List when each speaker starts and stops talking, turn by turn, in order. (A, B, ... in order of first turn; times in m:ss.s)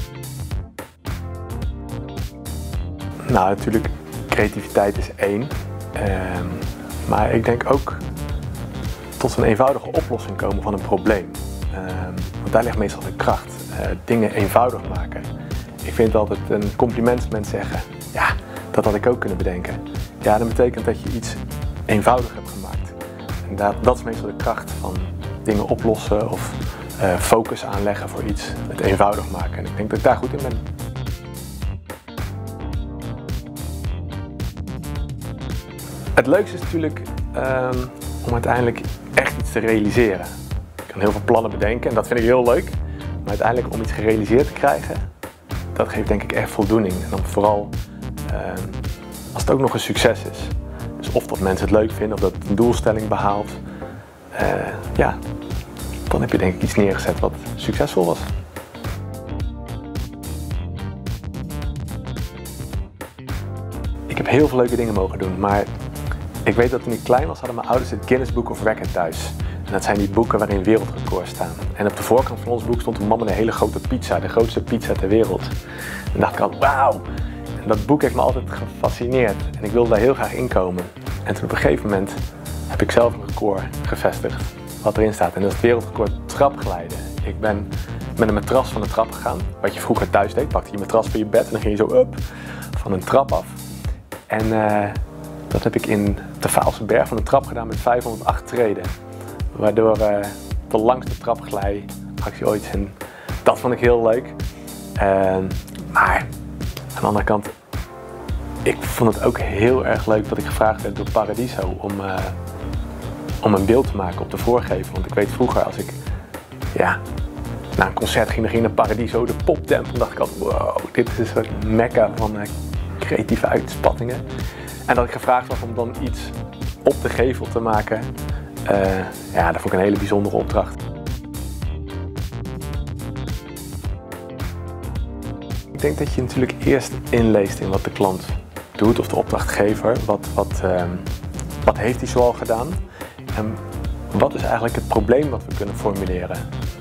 0:03.2-0:08.0 A
0:09.2-0:15.2 A
0:15.8-0:30.6 A
0:36.2-0:40.3 A
0:40.8-0:45.0 A
0:45.7-0:47.7 A
0:48.3-0:48.8 A
0:49.3-0:53.6 A
0:54.3-0:55.2 A
0:56.1-0:58.3 A
1:04.1-1:05.7 A
1:06.4-1:15.5 A
1:16.1-1:17.0 A
1:17.6-1:22.2 A
1:22.7-1:32.2 A
1:32.7-1:33.6 A
1:34.3-1:35.0 A
1:35.5-1:38.9 A
1:39.5-1:44.4 A
1:45.0-1:46.3 A
1:46.9-1:47.5 A
1:48.6-1:52.4 A
1:53.4-1:56.0 A
1:56.7-1:57.0 A
1:57.8-2:04.2 A
2:04.9-2:08.1 A
2:08.6-2:10.8 A
2:15.7-2:21.1 A
2:21.6-2:22.8 A
2:23.3-2:26.4 A